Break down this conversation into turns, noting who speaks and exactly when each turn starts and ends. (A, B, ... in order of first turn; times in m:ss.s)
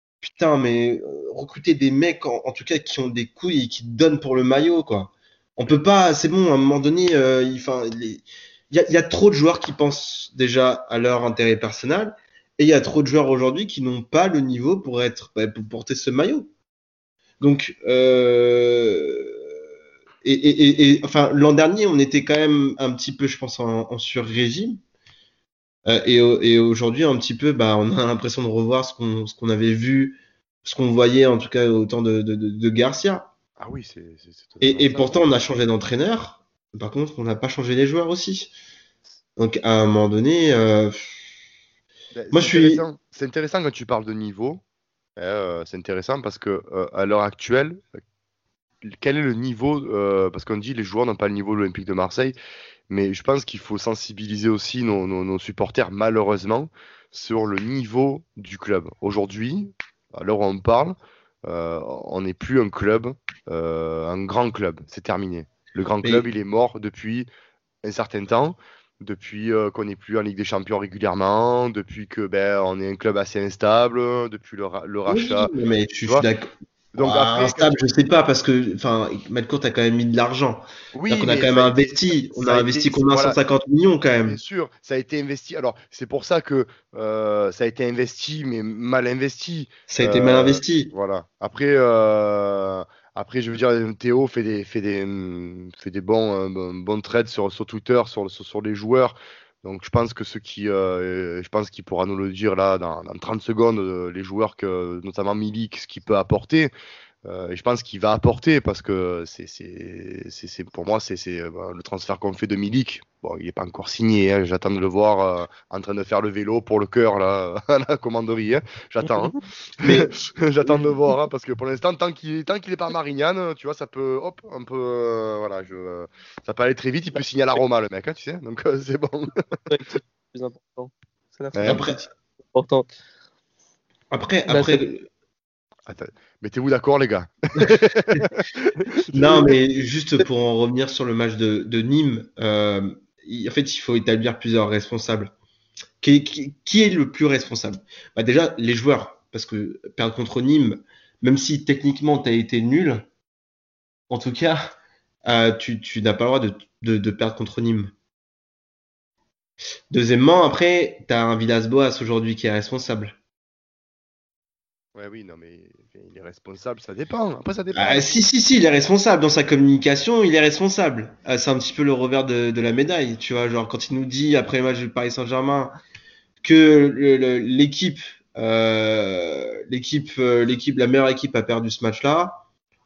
0:00.2-0:16.5 A
0:17.4-0:19.4 A
0:20.2-0:24.8 A
0:25.8-0:33.3 A
0:33.6-0:35.1 B
0:34.6-0:38.5 A
0:39.4-0:41.2 A
0:42.1-0:44.6 B
0:42.3-0:42.8 A
0:45.2-0:47.8 B
0:48.9-0:52.4 B
0:52.9-1:07.3 B
1:07.8-1:15.5 B
1:15.0-1:24.4 A
1:16.9-1:17.8 B
1:20.9-1:23.4 B
1:24.2-1:46.7 B
1:29.9-1:30.9 A
1:47.2-2:09.3 B
1:59.1-1:59.4 C
1:59.8-2:01.0 A
2:09.7-2:12.9 C
2:11.5-2:11.8 B
2:11.6-2:12.0 A
2:14.1-2:15.1 A
2:14.5-2:14.8 C
2:15.9-2:18.8 B
2:17.6-2:18.2 A
2:19.1-2:19.5 C
2:19.1-2:25.3 A
2:26.0-2:33.0 A
2:34.1-2:34.6 A
2:35.2-2:37.9 A
2:39.9-2:43.2 A
2:44.9-2:48.2 B
2:47.7-2:55.7 A
2:56.4-3:02.4 A